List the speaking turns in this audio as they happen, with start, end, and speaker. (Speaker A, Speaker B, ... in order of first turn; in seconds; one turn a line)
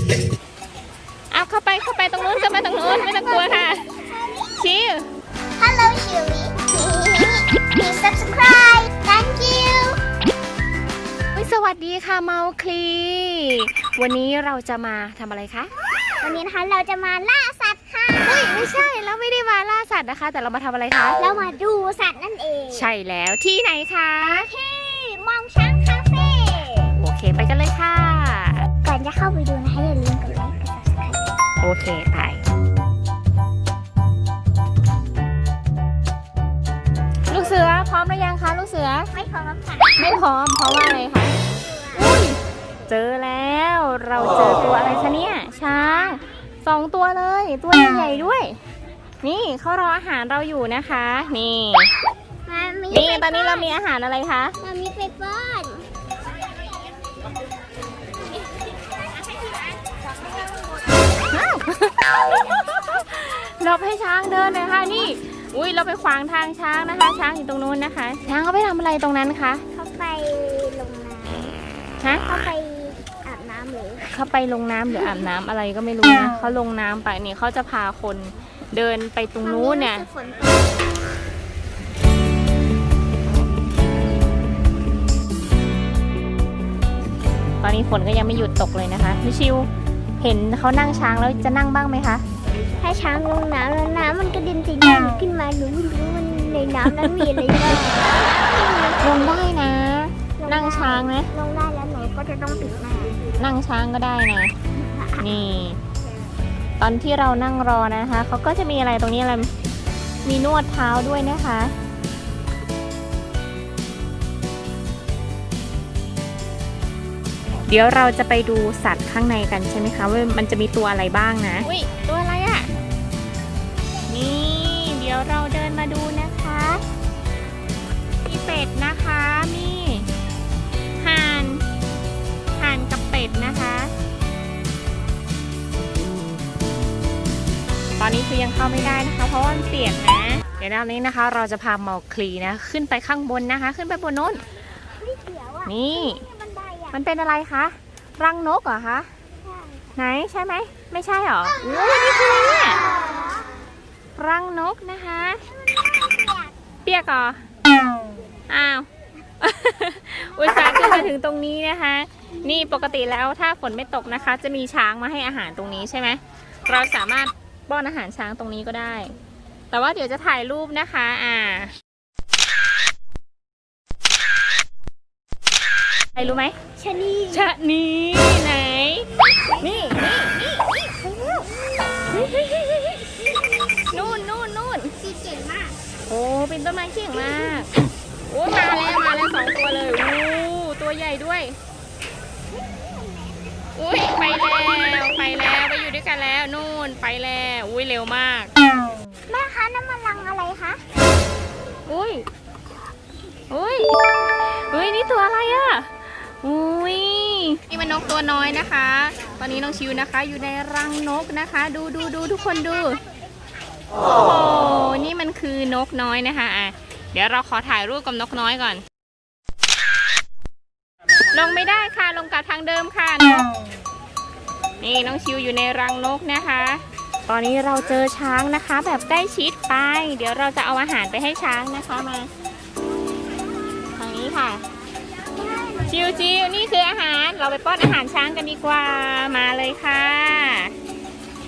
Speaker A: 1.3-3.8
Speaker B: 2.2-4.7
Speaker A: 4.5-5.0
Speaker B: 5.6-10.0
Speaker A: 11.3-15.7
Speaker B: 16.2-18.5
Speaker A: 18.2-21.3
Speaker B: 21.2-22.9
Speaker A: 22.7-24.5
Speaker B: 24.2-26.9
Speaker A: 27.0-28.7
Speaker B: 28.8-31.2
Speaker A: 31.6-32.4
Speaker A: 37.3-39.1
Speaker B: 39.1-40.2
Speaker A: 40.0-41.4
Speaker B: 41.4-42.1
Speaker A: 41.9-42.4
Speaker A: 42.9-48.6
Speaker A: 49.2-51.9
Speaker B: 52.5-53.8
Speaker A: 52.9-54.5
Speaker B: 54.6-55.9
Speaker A: 61.3-62.1
Speaker A: 62.7-69.6
Speaker B: 69.7-71.5
Speaker A: 72.0-72.2
Speaker B: 72.2-74.1
Speaker A: 74.1-80.1
Speaker B: 79.4-80.8
Speaker A: 87.6-89.7
Speaker A: 90.2-92.2
Speaker B: 92.8-99.4
Speaker A: 99.0-101.3
Speaker B: 100.4-103.2
Speaker A: 103.4-104.5
Speaker A: 105.2-105.8
Speaker A: 106.8-109.5
Speaker A: 110.2-111.7
Speaker A: 117.7-122.7
Speaker A: 124.1-126.8
Speaker A: 128.2-130.1
Speaker A: 131.0-131.6
Speaker A: 132.6-133.9
Speaker A: 138.0-144.4
Speaker B: 145.0-147.0
Speaker A: 145.7-146.2
Speaker A: 146.9-149.1
Speaker B: 149.4-149.9
Speaker A: 149.9-152.8
Speaker B: 151.6-153.5
Speaker A: 154.2-155.4
Speaker B: 155.5-156.5
Speaker A: 156.8-157.4
Speaker A: 158.5-158.9
Speaker A: 159.4-169.1
Speaker A: 169.7-171.7
Speaker A: 176.2-176.5
Speaker B: 176.8-177.5
Speaker A: 177.3-180.6
Speaker A: 182.1-183.1
Speaker A: 183.9-184.9
Speaker B: 185.0-185.8
Speaker A: 186.1-187.7
Speaker A: 188.3-191.6
Speaker B: 192.6-193.5
Speaker A: 193.7-198.5
Speaker B: 199.3-200.8
Speaker A: 201.9-202.2
Speaker A: 203.5-213.0
Speaker A: 214.1-218.8
Speaker A: 221.3-223.5
Speaker A: 224.8-232.3
Speaker A: 233.9-234.6
Speaker B: 235.3-236.3
Speaker A: 235.9-240.7